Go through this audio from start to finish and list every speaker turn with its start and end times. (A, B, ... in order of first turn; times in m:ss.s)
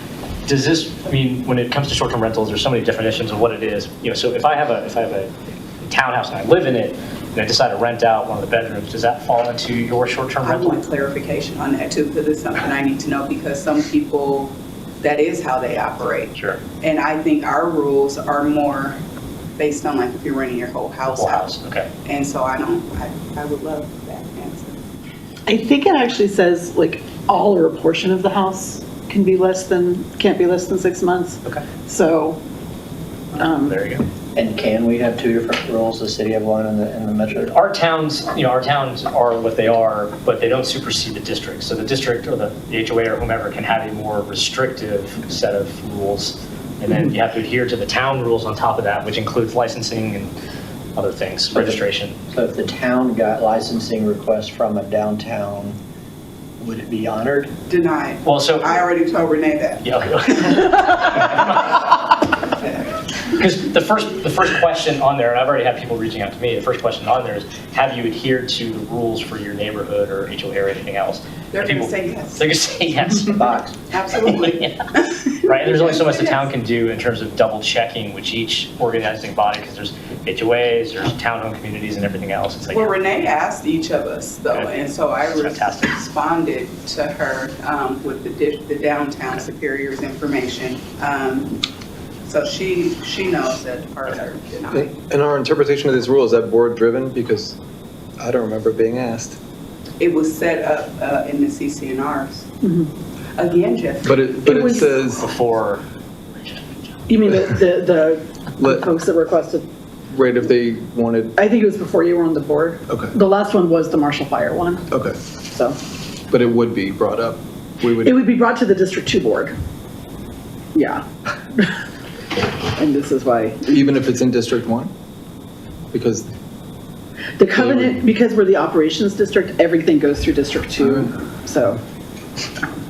0:00.5-0:05.3 A
0:05.8-0:10.8 A
0:10.4-0:19.0 B
0:19.6-0:21.5 B
0:21.1-0:21.9 A
0:22.0-0:24.8 B
0:25.5-0:32.4 C
0:33.4-0:33.8 C
0:33.4-0:34.0 A
0:34.4-0:37.6 D
0:37.5-0:50.3 A
0:51.0-0:52.2 A
0:51.5-0:55.8 D
0:56.6-0:57.5 D
0:57.7-0:59.8 B
0:58.2-0:58.8 A
0:59.8-1:02.0 A
1:03.3-1:13.5 A
1:11.5-1:12.5 B
1:13.3-1:13.8 D
1:13.9-1:16.4 B
1:14.3-1:14.7 A
1:15.4-1:23.0 A
1:22.7-1:31.6 B
1:24.5-1:24.8 A
1:25.4-1:25.9 A
1:32.2-1:35.0 B
1:34.7-1:37.6 E
1:38.2-1:39.4 E
1:40.0-1:42.4 B
1:42.6-1:42.9 C
1:43.4-1:44.8 B
1:44.0-1:45.3 E
1:44.5-1:44.9 C
1:45.2-1:45.8 A
1:46.4-1:46.7 A
1:47.1-1:49.7 C
1:48.6-1:48.9 E
1:50.1-1:51.3 E
1:51.4-1:54.8 C
1:52.9-1:53.2 E
1:54.9-1:55.2 E
1:55.5-1:55.8 C
1:56.3-1:58.2 E
1:58.0-1:59.5 C
2:00.8-2:01.7 C
2:02.8-2:03.8 C
2:03.7-2:04.9 E
2:05.9-2:06.3 E
2:07.4-2:11.8 C
2:07.5-2:08.1 E